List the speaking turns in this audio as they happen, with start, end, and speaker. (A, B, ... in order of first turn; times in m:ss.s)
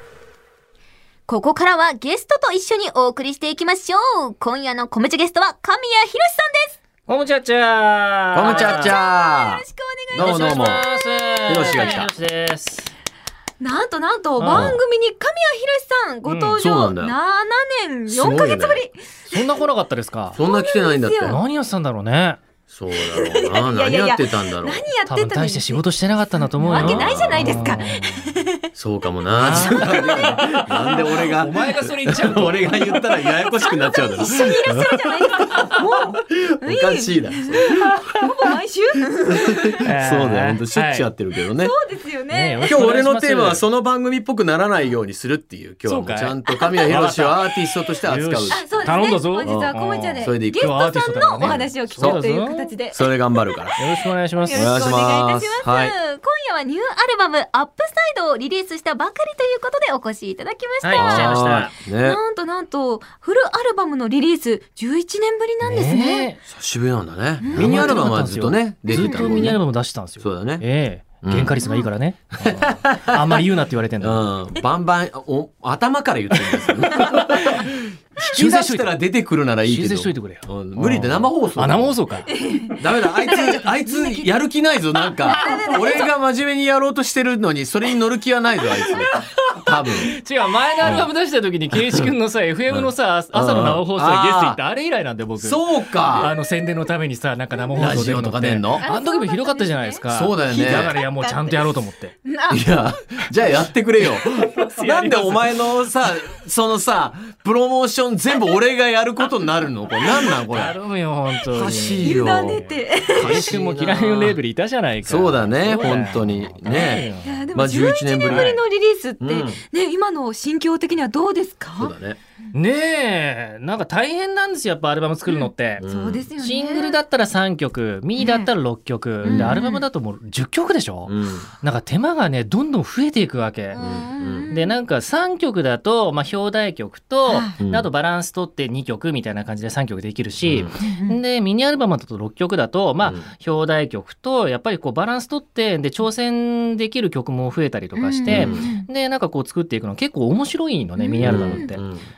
0:01.3-0:06.8 A
0:07.1-0:09.0 B
0:08.3-0:10.9 C
0:08.4-0:12.1 A
0:10.2-0:12.9 B
0:11.5-0:12.1 C
0:13.6-0:19.6 A
0:14.4-0:14.8 B
0:14.5-0:14.8 C
0:16.2-0:16.6 B
0:16.6-0:17.2 C
0:18.1-0:18.8 C
0:19.3-0:20.4 B
0:20.4-0:21.4 C
0:20.4-0:21.4 A
0:21.2-0:22.4 B
0:22.7-0:24.9 C
0:22.9-0:25.8 A
0:25.1-0:28.4 B
0:26.6-0:28.6 A
0:26.7-0:27.8 C
0:28.7-0:35.7 C
0:29.4-0:33.0 B
0:29.8-0:30.4 A
0:33.4-0:39.8 A
0:35.5-0:35.8 B
0:36.3-0:37.8 C
0:37.8-0:38.2 B
0:39.3-0:41.7 C
0:39.8-0:41.1 B
0:41.6-0:42.8 A
0:42.3-0:43.6 B
0:42.6-0:48.9 C
0:45.9-0:47.5 B
0:46.5-0:46.9 A
0:48.0-0:52.7 B
0:48.5-0:53.7 A
0:49.4-0:50.8 C
0:51.4-0:52.2 C
0:52.9-0:53.8 C
0:53.8-0:54.8 B
0:54.4-1:06.3 A
0:54.5-0:55.9 C
1:00.8-1:01.7 B
1:01.0-1:02.2 C
1:05.6-1:06.4 B
1:06.5-1:09.6 C
1:07.4-1:08.0 A
1:07.5-1:14.3 B
1:08.9-1:09.6 A
1:10.2-1:10.6 C
1:11.2-1:11.6 C
1:11.6-1:11.9 A
1:12.4-1:13.4 C
1:14.0-1:22.0 C
1:16.9-1:19.0 B
1:19.7-1:22.3 B
1:22.3-1:24.3 A
1:22.7-1:30.1 C
1:25.0-1:26.1 A
1:29.2-1:42.2 B
1:30.8-1:31.1 C
1:31.7-1:32.1 C
1:32.7-1:34.6 C
1:35.4-1:36.3 C
1:37.8-1:38.8 C
1:38.8-1:41.7 A
1:40.1-1:41.0 C
1:42.2-1:42.6 A
1:42.5-1:50.8 C
1:44.3-1:45.5 B
1:50.5-1:57.5 B
1:51.5-1:54.4 C
1:51.6-1:53.4 A
1:55.1-1:58.6 C
1:56.8-2:02.0 A
1:58.3-1:58.6 B
1:59.2-1:59.6 C
2:01.8-2:02.2 C
2:02.5-2:05.8 B
2:05.3-2:07.0 A
2:05.8-2:06.2 C
2:06.4-2:13.8 B
2:08.2-2:08.5 A
2:09.2-2:09.6 C
2:09.2-2:09.8 A
2:11.1-2:11.5 C
2:13.7-2:14.8 A
2:13.8-2:14.5 C
2:14.5-2:31.8 B
2:17.3-2:17.6 A
2:17.6-2:17.9 C
2:20.4-2:20.7 C
2:20.8-2:21.2 A
2:28.0-2:28.9 A
2:28.3-2:28.7 C
2:31.0-2:31.7 A
2:31.2-2:32.0 C